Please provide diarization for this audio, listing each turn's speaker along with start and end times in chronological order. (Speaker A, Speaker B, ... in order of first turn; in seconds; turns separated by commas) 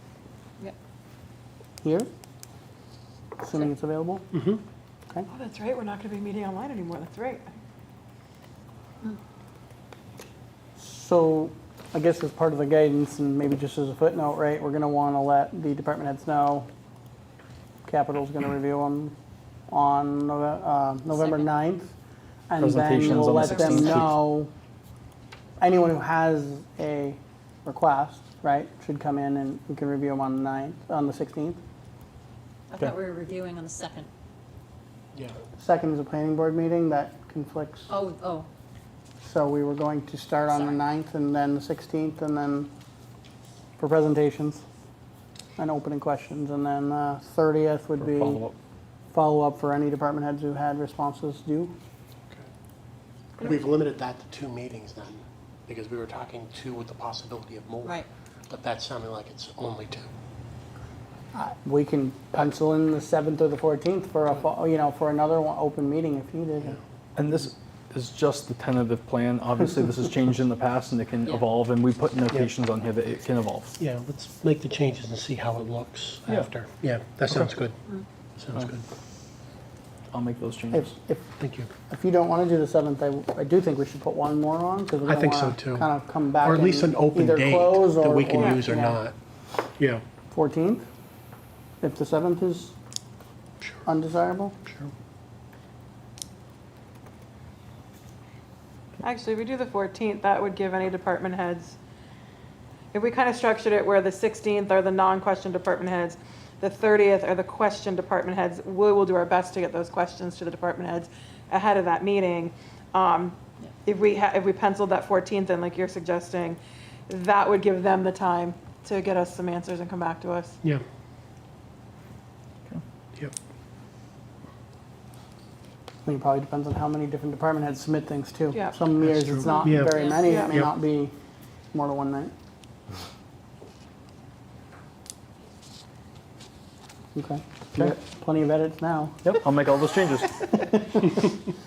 Speaker A: 1.8-2.1, Speaker A: 3.4-4.3, Speaker B: 4.3-4.6, Speaker C: 5.3-7.5, Speaker A: 10.8-16.7, Speaker A: 17.8-19.1, Speaker A: 19.7-21.9, Speaker D: 21.1-21.4, Speaker A: 22.5-24.5, Speaker E: 22.6-24.1, Speaker D: 23.1-23.9, Speaker A: 25.6-31.6, Speaker D: 32.7-34.1, Speaker A: 35.5-37.9, Speaker D: 37.9-38.5, Speaker A: 39.2-42.7, Speaker A: 43.8-44.6, Speaker A: 45.6-48.4, Speaker E: 48.0-48.5, Speaker A: 49.1-51.8, Speaker B: 53.4-60.1, Speaker A: 61.3-66.8, Speaker E: 67.2-73.8, Speaker B: 73.8-77.8, Speaker B: 78.4-78.8, Speaker E: 80.1-80.9, Speaker A: 80.7-81.3, Speaker B: 81.4-81.7, Speaker A: 81.9-89.0, Speaker B: 85.0-85.9, Speaker B: 86.4-89.1, Speaker B: 89.8-90.0, Speaker A: 90.3-90.8, Speaker A: 91.8-92.8, Speaker A: 93.8-94.6, Speaker B: 94.6-94.9, Speaker C: 99.0-101.8, Speaker C: 102.9-120.6, Speaker A: 126.0-131.1, Speaker C: 128.5-128.8, Speaker B: 129.0-130.7, Speaker C: 129.4-130.6, Speaker D: 129.9-130.2, Speaker A: 131.7-132.3, Speaker A: 137.1-139.4, Speaker E: 139.2-140.4, Speaker A: 140.5-141.2